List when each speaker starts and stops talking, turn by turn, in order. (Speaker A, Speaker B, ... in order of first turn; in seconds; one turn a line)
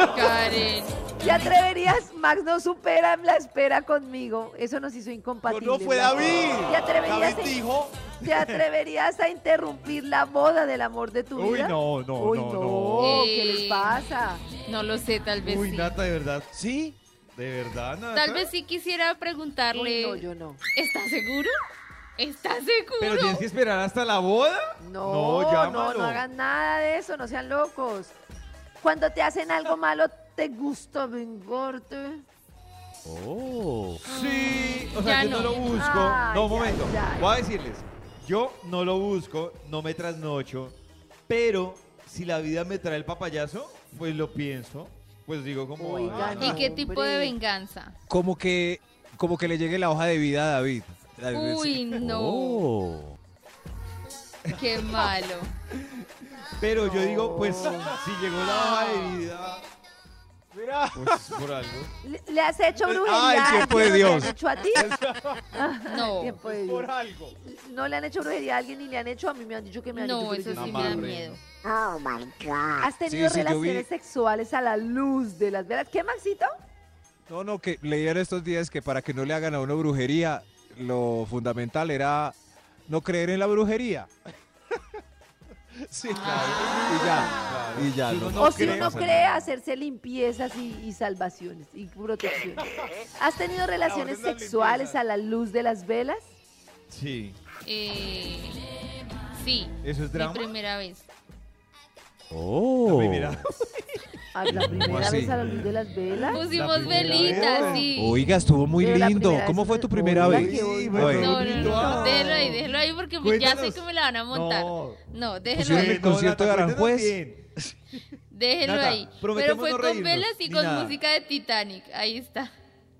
Speaker A: 0.1-0.9
Speaker B: 1.2-7.6
Speaker C: 5.5-8.6
Speaker B: 8.2-14.4
Speaker C: 11.3-13.3
Speaker A: 13.0-13.9
Speaker A: 14.7-15.9
Speaker C: 15.4-16.5
Speaker D: 16.5-16.9
Speaker C: 17.4-18.5
Speaker A: 18.1-21.5
Speaker B: 19.7-20.6
Speaker A: 22.2-23.4
Speaker C: 23.0-26.2
Speaker B: 24.8-28.1
Speaker B: 28.8-32.2
Speaker E: 33.0-34.0
Speaker C: 34.0-40.8
Speaker A: 34.1-35.8
Speaker B: 35.8-37.3
Speaker C: 41.3-46.8
Speaker B: 45.8-47.4
Speaker A: 46.4-48.0
Speaker D: 48.1-52.0
Speaker A: 51.3-52.7
Speaker E: 52.0-53.2
Speaker C: 54.5-55.1
Speaker A: 54.5-55.5
Speaker C: 56.6-59.6
Speaker B: 56.8-58.0
Speaker F: 58.5-59.1
Speaker F: 60.5-61.1
Speaker C: 60.9-61.9
Speaker B: 62.0-65.0
Speaker D: 62.9-64.4
Speaker C: 64.7-65.4
Speaker B: 65.5-71.2
Speaker A: 65.9-66.4
Speaker F: 66.4-67.3
Speaker C: 66.8-67.3
Speaker A: 69.9-71.4
Speaker C: 70.5-71.4
Speaker B: 72.8-76.5
Speaker D: 73.1-73.9
Speaker D: 77.3-82.4
Speaker D: 82.9-84.1
Speaker D: 85.9-89.5
Speaker A: 86.1-87.3
Speaker C: 86.4-89.3
Speaker B: 88.4-96.3
Speaker F: 93.8-95.0
Speaker C: 96.9-97.4
Speaker A: 97.6-98.6
Speaker A: 99.3-101.1
Speaker C: 99.8-100.5
Speaker E: 102.3-103.4
Speaker C: 102.8-103.8
Speaker B: 104.3-106.5
Speaker D: 104.5-105.5
Speaker C: 104.6-105.3
Speaker A: 106.3-108.3
Speaker C: 106.3-107.9
Speaker B: 107.4-107.7
Speaker D: 107.9-111.4
Speaker B: 108.8-112.5
Speaker C: 110.1-115.0
Speaker A: 111.0-116.0
Speaker D: 115.5-117.2
Speaker C: 115.6-117.5
Speaker A: 118.3-122.5
Speaker C: 118.6-121.0